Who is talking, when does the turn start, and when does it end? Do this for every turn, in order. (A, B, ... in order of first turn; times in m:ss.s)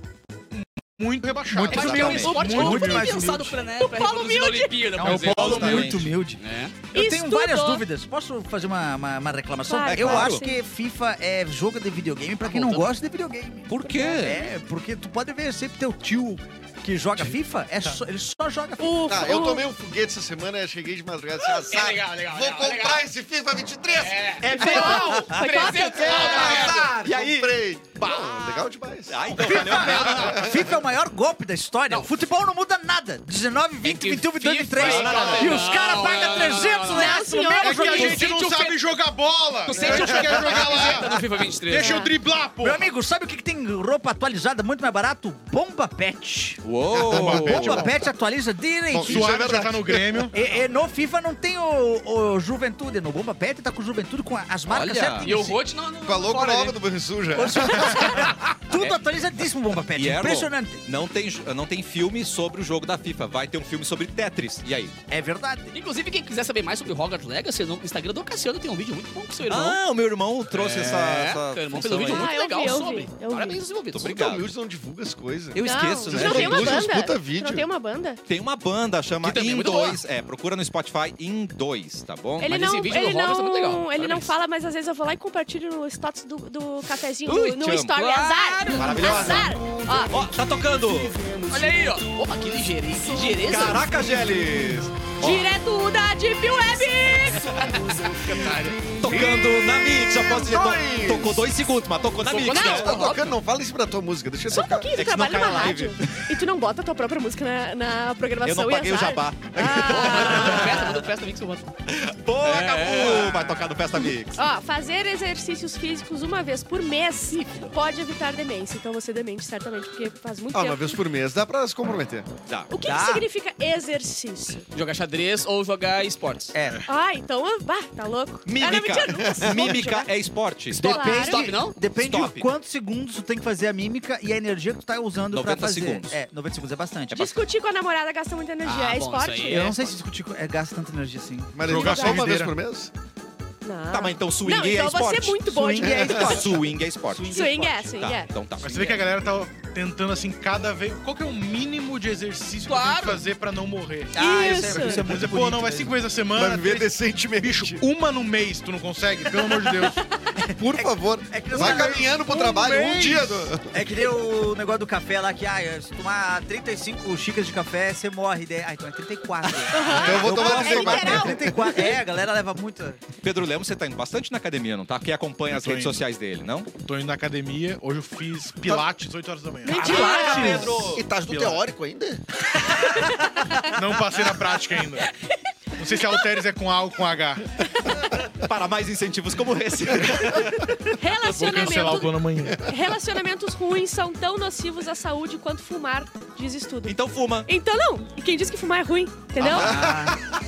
0:00.5-0:03.3 A
0:01.5-0:03.6 B
0:01.7-0:06.8 C
0:01.7-0:02.5 D
0:03.8-0:04.8 E
0:05.0-0:06.4 B
0:05.0-0:06.0 A
0:05.4-0:06.1 D
0:06.9-0:19.1 B
0:06.9-0:07.8 E
0:09.6-0:10.6 E
0:09.9-0:10.4 D
0:12.4-0:12.9 C
0:13.7-0:14.5 D
0:18.8-0:19.7 E
0:19.1-0:25.2 F
0:21.4-0:23.1 C
0:24.0-0:26.9 C
0:24.5-0:26.5 E
0:24.5-0:26.8 B
0:25.9-0:30.7 F
0:26.1-0:30.5 D
0:29.3-0:38.3 B
0:33.8-0:38.8 C
0:34.8-0:35.7 D
0:34.9-0:35.5 A
0:36.9-0:38.2 E
0:37.6-0:42.9 A
0:39.7-0:42.0 C
0:39.8-0:40.3 F
0:41.8-0:42.1 E
0:42.6-0:46.6 B
0:46.6-0:47.8 D
0:46.9-0:47.8 F
0:47.0-0:48.0 A
0:47.3-0:49.4 B
0:48.9-0:50.3 F
0:49.0-0:50.4 A
0:50.3-0:55.6 B
0:54.7-0:55.3 D
0:55.2-0:56.8 C
0:56.0-0:58.3 F
0:57.3-1:00.8 B
1:00.0-1:04.9 D
1:05.1-1:05.8 B
1:05.7-1:09.8 C
1:09.5-1:12.3 D
1:10.5-1:14.2 C
1:12.0-1:13.6 E
1:13.9-1:14.5 D
1:14.0-1:17.7 F
1:15.5-1:16.9 D
1:15.6-1:18.2 E
1:18.3-1:22.5 D
1:19.2-1:20.0 C
1:22.4-1:30.2 E
1:22.5-1:24.3 C
1:27.3-1:29.3 C
1:27.4-1:27.9 D
1:28.7-1:31.3 D
1:31.5-1:33.9 C
1:33.4-1:35.5 D
1:35.2-1:37.7 E
1:37.5-1:39.0 C
1:39.0-1:42.9 D
1:39.0-1:41.5 F
1:42.2-1:43.3 C
1:42.5-1:42.8 E
1:42.6-1:44.9 F
1:44.5-1:50.9 E
1:44.9-1:46.3 D
1:48.4-1:51.0 D
1:49.8-1:51.7 C
1:51.9-1:54.4 D
1:52.4-1:53.6 C
1:54.0-2:01.0 E
1:57.3-1:57.7 C
2:00.5-2:02.3 F
2:02.5-2:02.7 D
2:02.7-2:04.6 E
2:02.8-2:03.3 B
2:04.7-2:06.6 C
2:06.5-2:06.8 B
2:06.9-2:10.1 E
2:08.5-2:10.9 D
2:09.2-2:09.8 F
2:10.7-2:17.4 B
2:10.8-2:11.8 C
2:10.8-2:11.4 E
2:11.9-2:12.5 D
2:15.3-2:16.1 D
2:17.1-2:19.8 E
2:18.6-2:19.8 C
2:19.4-2:21.6 B
2:21.6-2:22.9 F
2:21.6-2:22.6 A
2:21.7-2:22.3 E
2:23.6-2:26.4 E
2:23.9-2:29.0 D
2:25.5-2:28.0 B
2:25.8-2:26.5 F
2:27.3-2:28.3 E
2:28.6-2:40.0 A
2:32.7-2:33.2 C
2:34.1-2:35.9 B
2:34.2-2:35.0 E
2:36.3-2:37.8 F
2:40.4-2:42.2 B
2:40.4-2:43.7 F
2:41.5-2:43.5 A
2:43.6-2:53.0 B
2:49.7-2:52.0 E
2:49.8-2:51.7 F
2:53.2-2:56.7 D
2:55.5-2:56.0 A
2:56.8-3:01.6 A
2:59.6-3:00.7 E
2:59.8-3:00.9 B
2:59.8-3:01.1 D
3:00.9-3:02.2 F
3:02.6-3:03.7 E
3:03.7-3:05.1 A
3:05.0-3:05.3 E
3:05.8-3:07.5 A
3:08.4-3:10.9 D
3:10.9-3:19.8 E
3:11.2-3:12.7 A
3:16.9-3:17.5 D
3:19.4-3:20.2 B
3:19.5-3:20.2 F